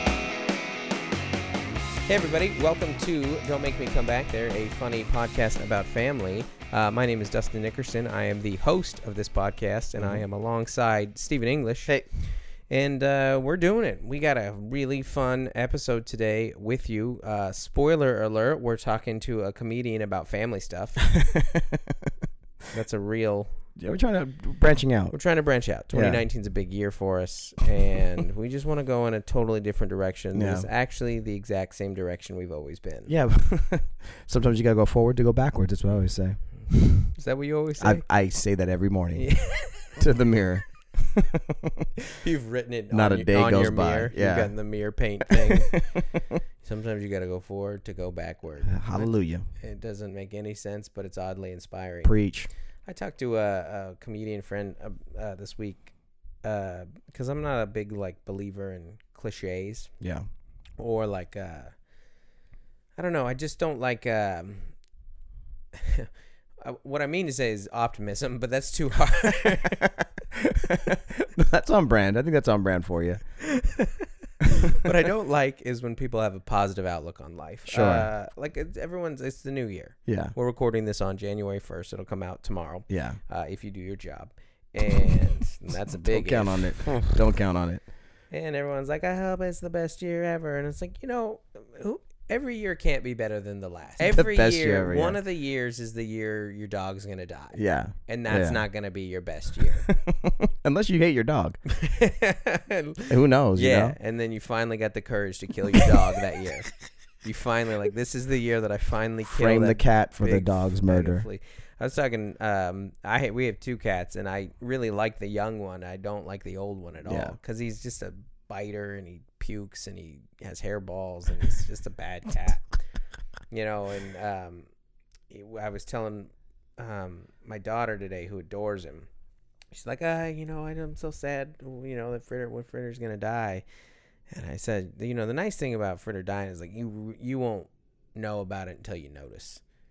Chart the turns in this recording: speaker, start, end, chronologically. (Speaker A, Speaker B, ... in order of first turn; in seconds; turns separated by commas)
Speaker A: 2.0-12.0, Speaker B: 10.0-10.2, Speaker A: 12.7-21.0, Speaker B: 21.1-22.1, Speaker A: 22.7-23.6, Speaker B: 23.8-25.2, Speaker A: 25.1-33.1, Speaker B: 25.9-26.2, Speaker B: 30.3-30.7, Speaker B: 33.1-36.8, Speaker A: 37.1-38.0, Speaker B: 37.8-41.9, Speaker A: 39.1-40.0, Speaker A: 42.2-45.8, Speaker B: 42.9-44.5, Speaker B: 45.3-46.3, Speaker A: 46.6-52.1, Speaker B: 48.7-49.4, Speaker B: 52.0-52.5, Speaker A: 52.9-59.9, Speaker A: 60.8-61.7, Speaker A: 63.0-64.7, Speaker A: 65.7-66.1, Speaker A: 66.6-69.9, Speaker B: 69.6-73.2, Speaker A: 73.4-87.1, Speaker B: 77.7-78.1, Speaker B: 80.0-80.3, Speaker B: 82.9-83.2, Speaker B: 85.9-87.8, Speaker A: 88.3-99.9, Speaker B: 94.0-95.2, Speaker B: 97.5-98.6, Speaker B: 99.6-101.6, Speaker A: 101.8-122.8, Speaker B: 103.1-104.0, Speaker B: 109.2-111.3, Speaker B: 117.0-117.3, Speaker A: 123.5-124.7, Speaker A: 125.3-129.1, Speaker A: 129.7-133.6, Speaker A: 134.3-139.6